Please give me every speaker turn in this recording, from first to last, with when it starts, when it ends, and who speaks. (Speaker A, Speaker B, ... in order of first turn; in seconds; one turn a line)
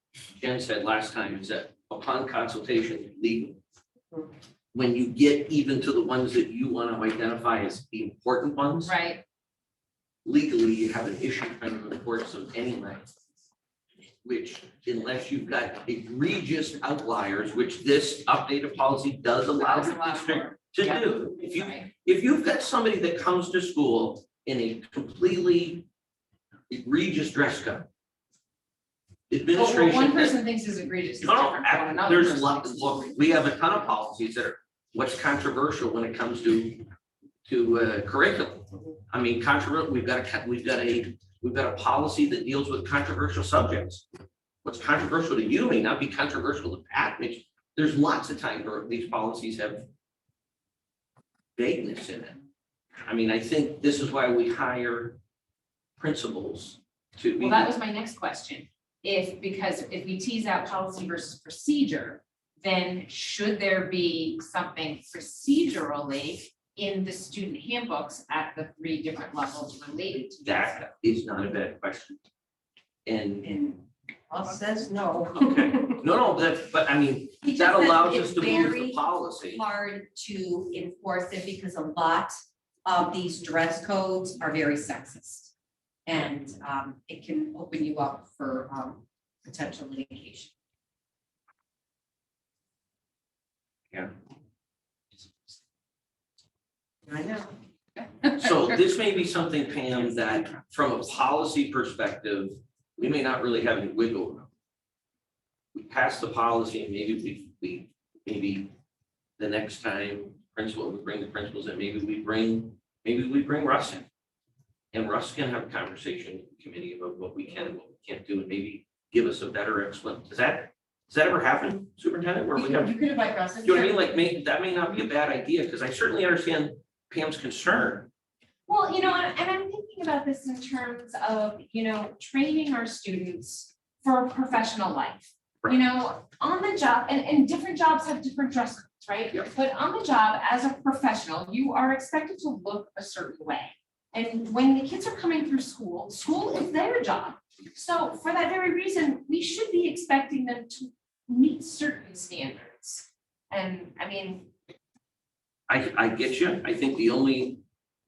Speaker A: 0.3-3.6
Speaker A: 4.7-8.9
Speaker B: 8.8-9.2
Speaker A: 10.2-13.1
Speaker A: 14.2-25.9
Speaker B: 19.6-21.9
Speaker A: 26.7-27.9
Speaker A: 29.3-30.4
Speaker B: 29.5-33.8
Speaker A: 31.2-36.9
Speaker A: 37.5-44.0
Speaker A: 44.6-49.9
Speaker A: 51.5-52.4
Speaker A: 53.0-55.2
Speaker A: 56.0-57.7
Speaker B: 57.4-70.9
Speaker A: 70.4-72.2
Speaker A: 73.0-73.5
Speaker C: 73.4-76.0
Speaker A: 75.3-79.6
Speaker C: 77.4-82.3
Speaker C: 82.8-85.5
Speaker C: 86.0-90.5
Speaker C: 97.1-97.5
Speaker A: 98.3-104.5
Speaker A: 105.7-108.7
Speaker A: 109.4-114.0
Speaker A: 114.9-122.9
Speaker C: 122.5-124.4
Speaker A: 123.6-128.1
Speaker B: 128.7-154.5
Speaker A: 155.7-157.6